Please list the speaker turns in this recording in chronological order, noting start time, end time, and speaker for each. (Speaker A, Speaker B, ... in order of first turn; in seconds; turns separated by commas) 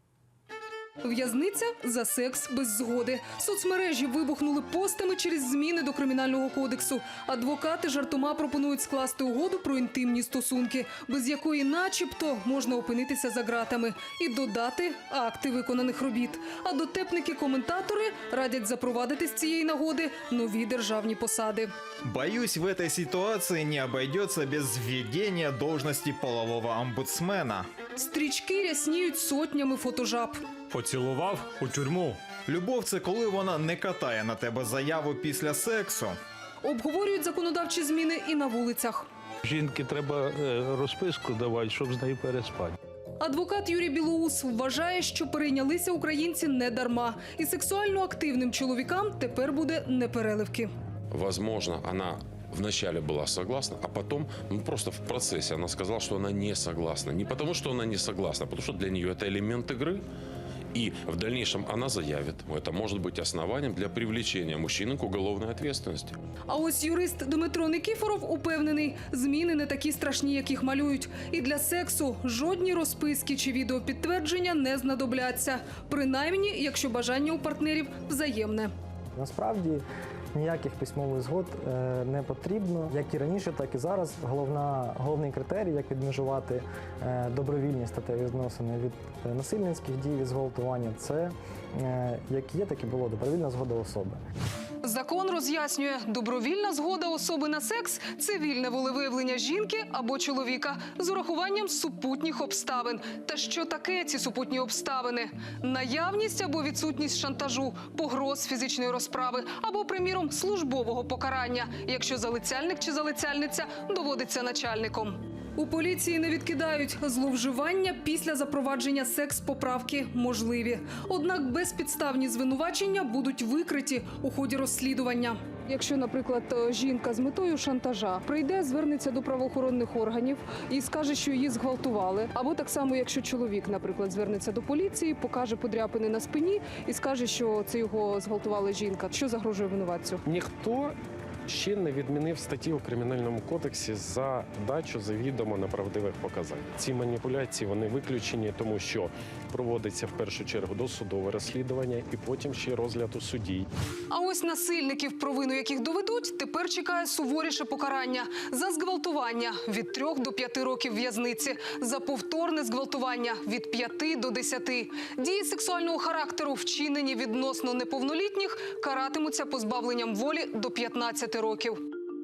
Speaker A: 1.0-21.7, Speaker B: 22.1-27.7, Speaker A: 27.9-30.4, Speaker B: 30.7-36.1, Speaker A: 36.6-39.1, Speaker C: 39.4-42.8, Speaker A: 43.2-50.7, Speaker D: 51.1-60.0, Speaker D: 60.7-66.2, Speaker A: 66.5-78.7, Speaker E: 79.2-94.2, Speaker A: 94.8-140.2, Speaker F: 140.3-141.0, Speaker F: 141.5-153.7, Speaker A: 154.1-171.8